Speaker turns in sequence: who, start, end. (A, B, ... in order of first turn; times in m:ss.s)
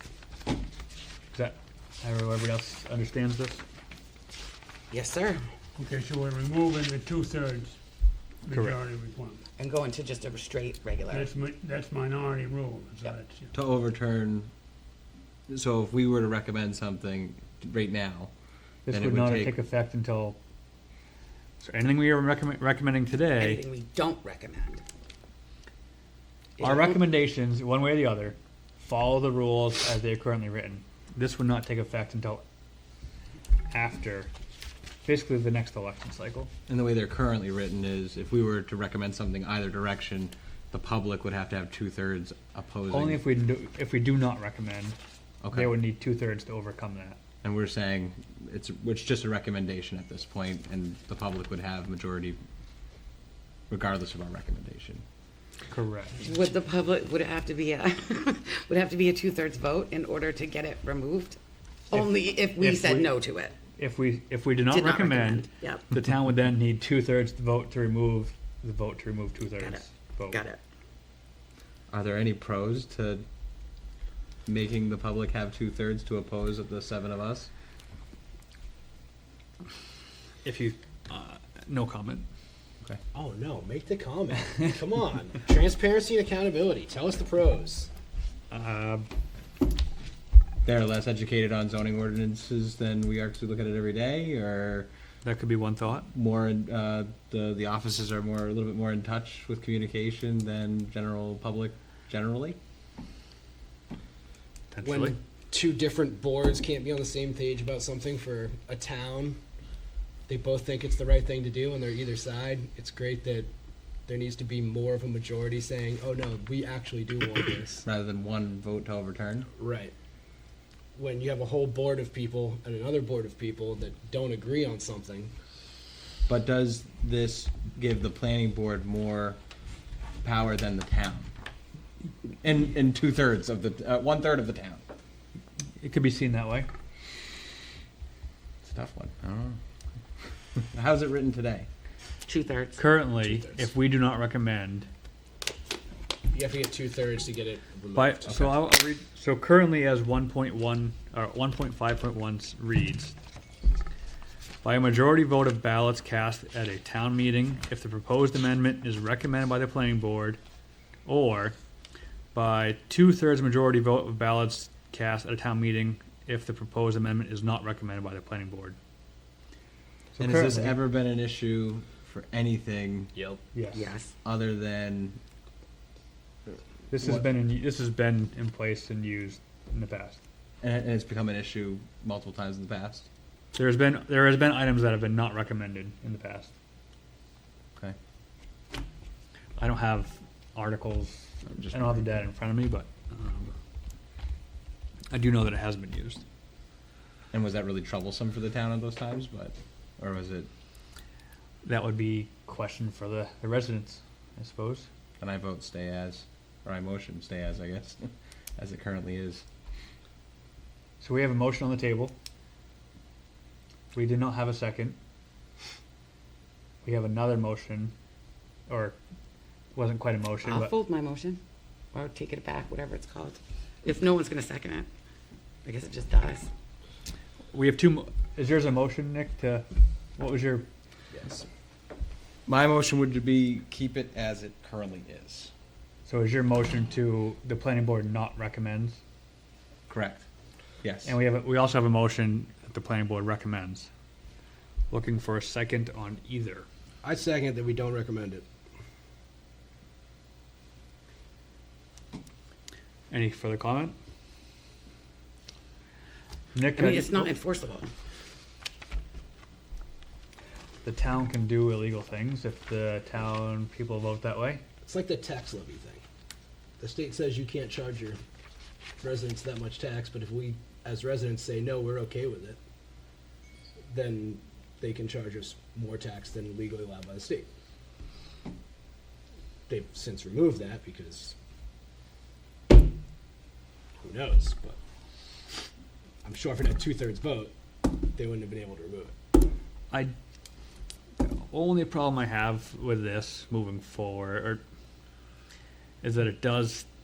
0:01.3-0:03.6 A
0:04.9-0:05.4 B
0:05.8-0:07.8 C
0:08.4-0:09.4 C
0:08.5-0:08.8 A
0:09.6-0:11.3 B
0:11.1-0:13.5 C
0:13.5-0:14.5 D
0:15.5-0:18.3 D
0:18.8-0:20.4 A
0:18.9-0:19.5 D
0:21.6-0:23.6 A
0:23.4-0:24.8 B
0:26.6-0:27.0 B
0:26.6-0:32.4 A
0:33.7-0:34.3 A
0:35.0-0:36.5 A
0:36.7-0:43.2 D
0:42.9-0:45.0 A
0:45.4-0:45.8 D
0:45.5-0:47.2 A
0:47.4-0:52.4 D
0:53.7-0:55.0 D
0:55.7-0:56.3 A
0:56.2-1:01.4 B
1:01.9-1:03.6 B
1:01.9-1:03.1 A
1:03.8-1:10.4 A
1:04.7-1:05.9 B
1:09.6-1:10.6 B
1:11.9-1:13.2 D
1:14.4-1:17.5 D
1:20.4-1:22.3 A
1:23.1-1:27.9 E
1:28.5-1:29.0 A
1:30.6-1:34.9 D
1:35.2-1:36.1 A
1:36.1-1:42.6 D
1:44.7-1:45.1 A
1:44.8-1:49.4 E
1:50.3-1:53.5 E
1:54.1-1:57.8 E
1:57.8-1:59.5 D
1:59.6-1:59.9 E
2:00.9-2:05.3 E
2:06.3-2:09.4 D
2:10.2-2:11.3 D
2:12.4-2:14.8 D
2:15.8-2:16.7 A
2:18.6-2:19.6 D
2:20.6-2:21.7 D
2:22.2-2:22.8 B
2:22.8-2:24.9 A
2:23.3-2:23.6 E
2:26.3-2:28.5 E
2:28.0-2:33.1 A
2:34.6-2:40.4 A
2:41.0-2:41.5 A
2:42.3-2:48.8 A
2:50.1-2:50.8 A
2:50.2-2:53.1 D
2:53.1-2:53.4 E
2:53.5-2:53.9 A
2:53.7-2:54.1 B
2:54.2-2:55.2 D
2:56.9-3:00.2 A
2:56.9-2:57.2 D
3:00.6-3:03.1 D
3:03.5-3:06.5 A
3:09.6-3:13.5 A
3:11.5-3:12.1 D
3:15.1-3:16.2 A
3:17.3-3:20.5 D
3:21.6-3:24.9 A
3:25.2-3:29.4 D
3:31.0-3:32.1 A
3:33.9-3:35.0 A
3:36.8-3:37.9 A
3:38.7-3:39.0 A
3:39.7-3:40.7 A
3:40.4-3:41.4 B
3:41.9-3:44.9 B
3:45.6-3:46.5 B
3:47.5-3:49.6 A
3:50.2-3:50.6 A
3:52.4-3:55.5 D
3:56.0-3:59.0 A
3:59.9-4:00.2 D
4:00.8-4:01.2 D
4:01.0-4:03.9 A
4:04.9-4:06.6 A
4:07.0-4:08.4 E
4:13.1-4:13.9 A
4:16.5-4:17.3 A
4:16.8-4:17.9 B
4:20.8-4:24.6 A
4:24.8-4:26.0 E
4:26.8-4:28.2 E
4:29.0-4:32.6 E
4:33.9-4:37.5 E
4:39.7-4:41.3 E
4:44.0-4:44.8 E
4:46.2-4:49.1 E
4:51.2-4:54.6 A
4:56.0-4:56.8 A